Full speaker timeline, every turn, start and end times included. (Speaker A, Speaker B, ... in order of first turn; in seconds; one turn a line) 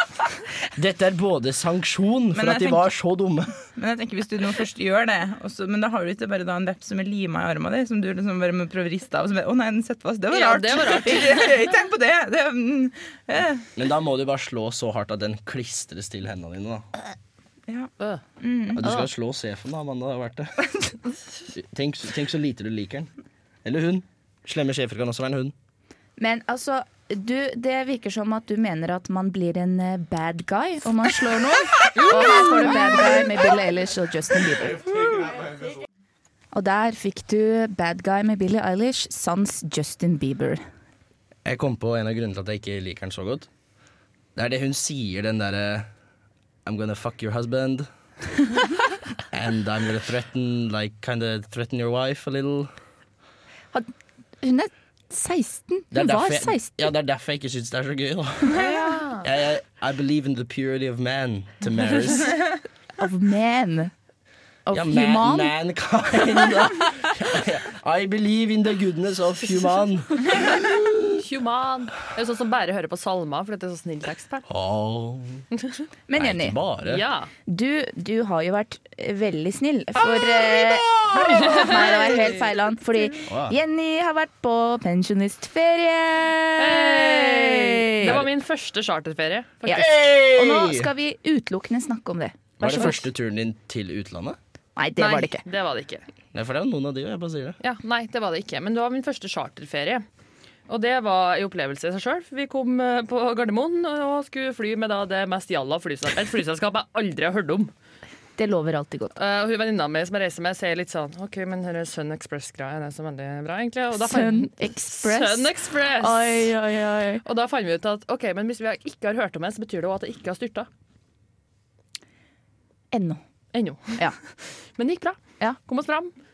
Speaker A: 0.8-3.5
Speaker B: 2.4-2.9
Speaker B: 3.8-13.7
Speaker C: 10.3-11.5
Speaker A: 13.8-16.9
Speaker D: 18.4-19.0
Speaker A: 18.8-20.7
Speaker A: 21.5-23.1
Speaker A: 23.6-25.5
Speaker D: 26.2-35.0
Speaker D: 36.5-40.6
Speaker A: 41.5-43.5
Speaker A: 44.4-45.9
Speaker A: 46.6-47.9
Speaker A: 49.3-52.7
Speaker D: 54.4-56.9
Speaker A: 55.9-58.7
Speaker C: 58.5-59.3
Speaker A: 59.2-62.4
Speaker D: 63.0-63.9
Speaker D: 64.7-65.5
Speaker A: 64.7-71.1
Speaker C: 71.2-74.5
Speaker A: 74.5-75.5
Speaker D: 76.1-76.6
Speaker A: 76.2-77.0
Speaker C: 76.8-77.3
Speaker D: 77.5-88.2
Speaker A: 80.0-81.9
Speaker C: 81.2-82.5
Speaker A: 83.3-83.6
Speaker C: 86.6-89.9
Speaker A: 88.0-88.3
Speaker D: 89.7-93.0
Speaker A: 89.7-90.9
Speaker A: 92.6-94.4
Speaker D: 94.8-95.4
Speaker C: 95.0-96.1
Speaker A: 96.3-97.6
Speaker C: 97.6-100.0
Speaker C: 100.7-107.7
Speaker D: 108.4-109.2
Speaker C: 109.2-116.5
Speaker D: 114.0-117.2
Speaker C: 117.2-120.7
Speaker D: 122.9-123.2
Speaker C: 123.5-126.1